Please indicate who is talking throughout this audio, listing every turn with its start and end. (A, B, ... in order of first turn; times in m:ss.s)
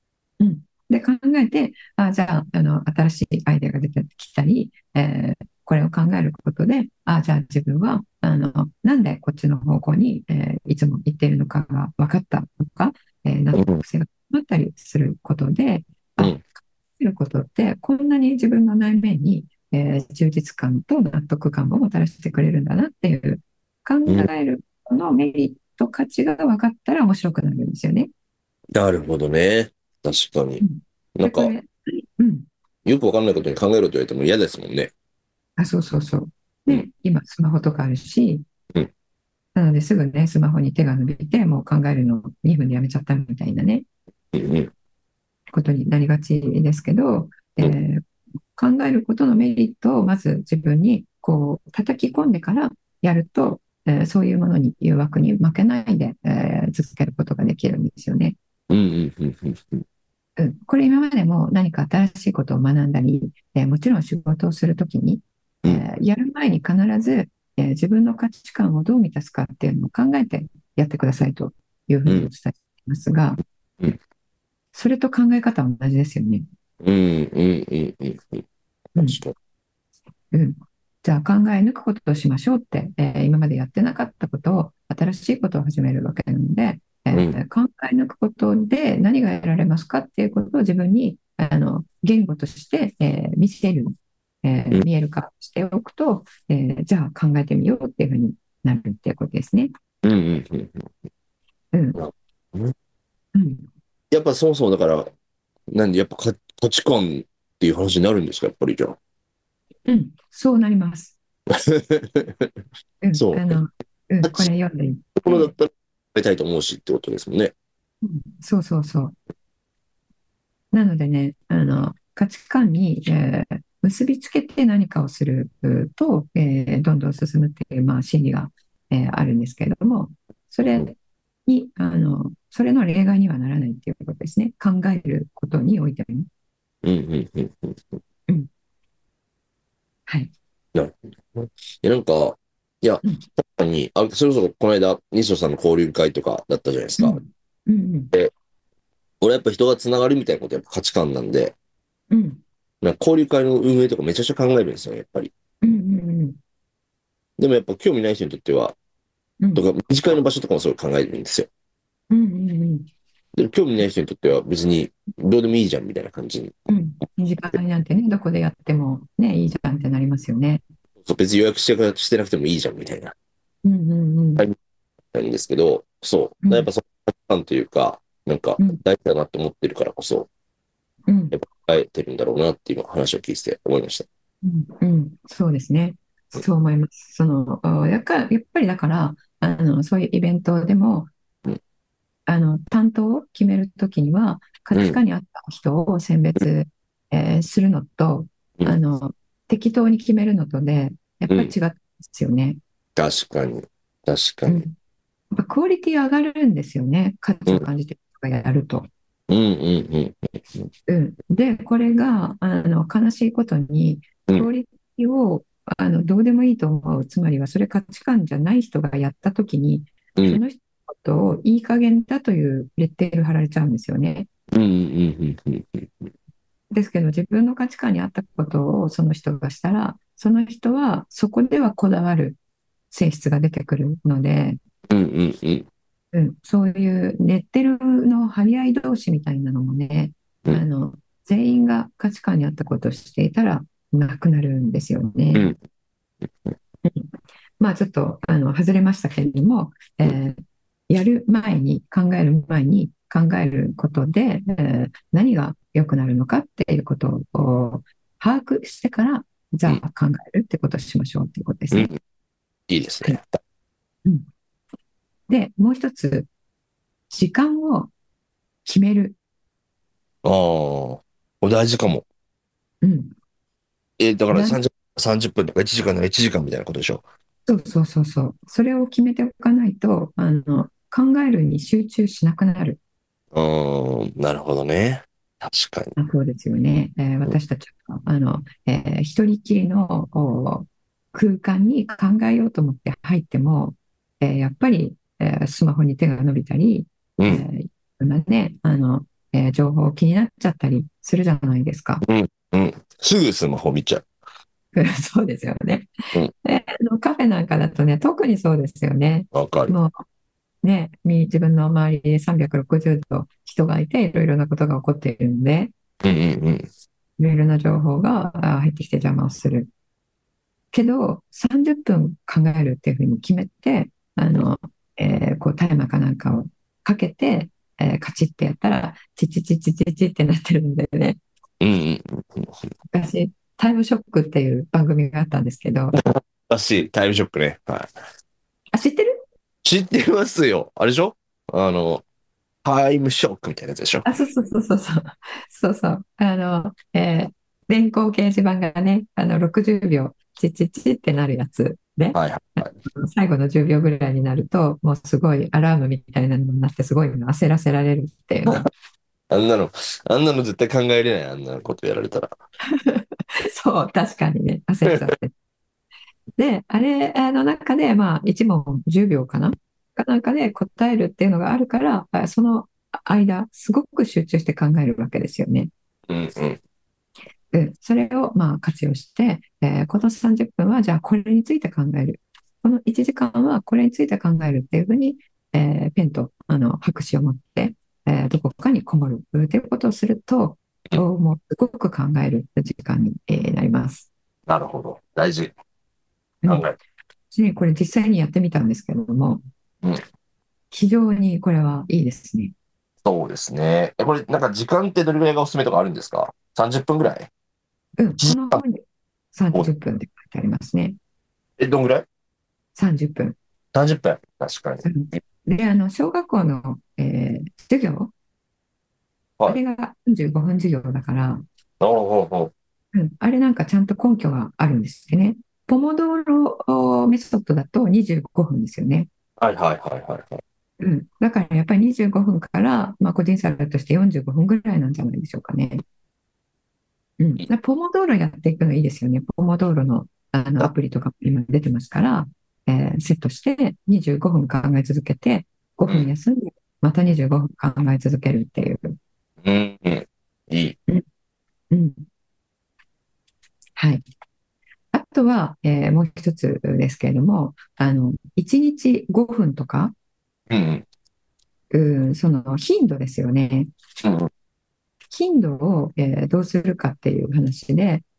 0:00.4-0:28.1 A
0:13.5-0:13.8 B
0:28.7-0:30.6 B
0:30.6-0:32.5 A
0:31.2-0:31.5 B
0:32.8-0:34.9 B
0:35.6-0:38.4 A
0:39.5-0:43.8 A
0:44.3-0:44.7 B
0:45.5-0:48.0 A
0:48.6-0:58.4 A
0:58.7-0:59.8 B
1:00.4-1:13.4 A
1:14.7-1:16.4 A
1:16.8-1:19.3 B
1:19.0-1:19.2 A
1:20.3-1:39.7 A
1:40.0-1:40.9 B
1:41.7-1:42.0 A
1:41.9-1:42.7 B
1:43.3-1:43.6 A
1:44.1-1:45.1 B
1:45.7-1:49.0 B
1:49.9-1:51.2 A
1:51.5-1:52.5 B
1:53.0-1:55.5 A
1:53.1-1:53.6 B
1:55.2-1:57.5 B
1:58.0-1:59.1 A
2:00.7-2:10.9 A
2:11.4-2:16.3 A
2:16.8-2:18.0 B
2:20.1-2:20.3 A
2:20.7-2:27.2 B
2:27.0-2:28.1 A
2:29.2-2:31.5 B
2:32.1-2:32.4 A
2:32.8-2:35.3 B
2:35.6-2:36.4 A
2:37.4-2:38.8 B
2:39.5-2:41.5 B
2:42.1-2:42.9 A
2:43.4-2:46.5 B
2:46.7-2:50.6 A
2:51.0-2:53.1 B
2:53.6-2:54.4 A
2:55.1-3:00.3 B
2:56.4-2:56.7 A
3:01.1-3:01.4 A
3:01.3-3:04.0 B
3:04.4-3:11.1 A
3:12.3-3:22.6 A
3:23.0-3:24.6 B
3:24.5-3:24.7 A
3:25.3-3:28.9 A
3:29.3-3:30.7 B
3:30.9-3:44.3 A
3:40.2-3:40.4 B
3:44.5-3:46.1 B
3:46.7-3:52.4 A
3:52.9-3:54.6 A
3:54.9-3:55.7 B
3:56.1-4:05.5 A
4:06.8-4:21.9 A
4:22.7-4:23.4 B
4:25.3-4:26.3 A
4:27.1-4:27.9 A
4:28.6-4:29.2 A
4:30.2-4:32.0 B
4:32.8-4:33.1 A
4:34.0-4:37.0 B
4:34.3-4:34.6 A
4:37.4-4:42.8 A
4:43.3-4:45.9 B
4:46.0-5:02.0 A
4:57.2-4:57.4 B
5:02.0-5:04.1 B
5:04.7-5:05.9 A
5:06.4-5:09.9 A
5:09.3-5:09.8 B
5:10.6-5:15.7 A
5:16.0-5:16.7 B
5:17.2-5:19.7 A
5:20.7-5:31.2 A
5:31.6-5:32.7 B
5:32.9-5:36.0 A
5:36.5-5:37.9 B
5:38.7-5:39.1 A
5:39.6-5:42.0 B
5:42.6-5:44.0 B
5:44.0-5:58.7 A
5:52.1-5:52.7 B
5:59.3-6:02.3 B
6:02.7-6:05.3 A
6:06.4-6:15.7 A
6:16.1-6:16.6 B
6:17.5-6:34.1 A
6:34.5-6:35.5 B
6:36.5-6:36.8 B
6:37.3-6:39.4 A
6:40.7-6:42.5 A
6:43.0-6:47.3 B
6:48.0-6:51.0 A
6:48.2-6:48.6 B
6:51.6-6:52.0 B
6:52.8-6:53.4 A
6:53.7-6:54.8 B
6:54.8-6:58.1 A
6:59.5-7:01.4 A
7:01.8-7:02.5 B
7:02.9-7:09.1 A
7:09.4-7:10.4 B
7:10.8-7:15.8 A
7:17.2-7:29.0 A
7:29.4-7:30.8 B
7:31.7-7:32.0 A
7:33.8-7:34.0 A
7:34.9-7:39.9 A
7:40.5-7:40.8 B
7:41.7-7:43.7 A
7:44.0-7:44.3 B
7:45.1-7:48.0 A